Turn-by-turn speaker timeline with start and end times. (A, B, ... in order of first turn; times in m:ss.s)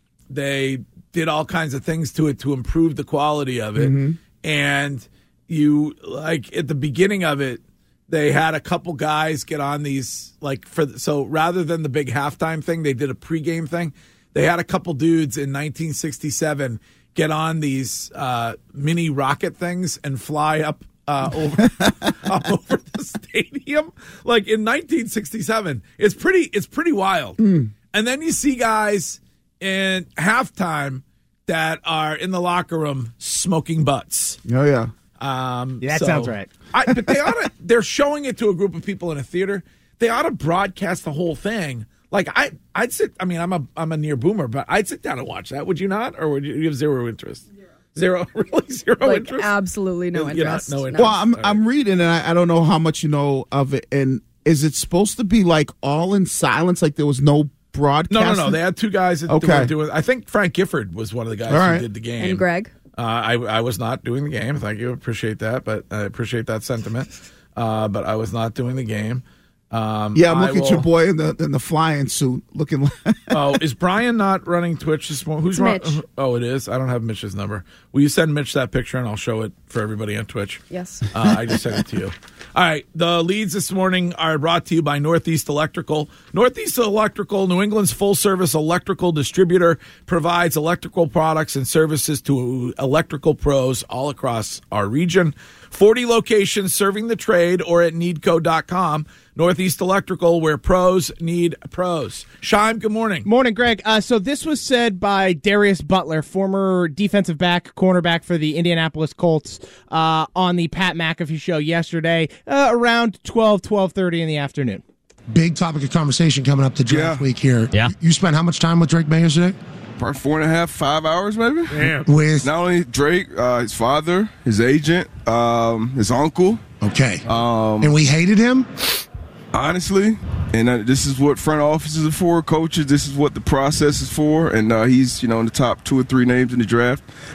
0:00.3-0:27.4 A
0:03.8-0:04.2 B
0:27.4-0:27.7 B
0:27.9-0:34.4 A
0:34.4-0:34.9 B
0:35.2-0:49.5 A
0:35.8-0:36.5 C
0:49.0-0:51.2 D
0:50.1-0:51.6 A
0:50.9-0:58.6 B
0:58.1-1:10.9 A
0:59.3-0:59.7 B
1:01.5-1:01.9 B
1:02.2-1:02.7 D
1:10.1-1:13.6 B
1:13.3-1:43.3 A
1:15.5-1:16.0 D
1:20.7-1:21.1 D
1:43.2-1:54.8 C
1:55.3-1:59.6 E
1:56.8-1:57.3 F
2:00.0-2:06.7 F
2:01.7-2:02.0 A
2:02.0-2:02.5 E
2:06.8-2:07.2 E
2:07.2-2:08.0 F
2:07.8-2:08.7 E
2:09.5-2:17.0 F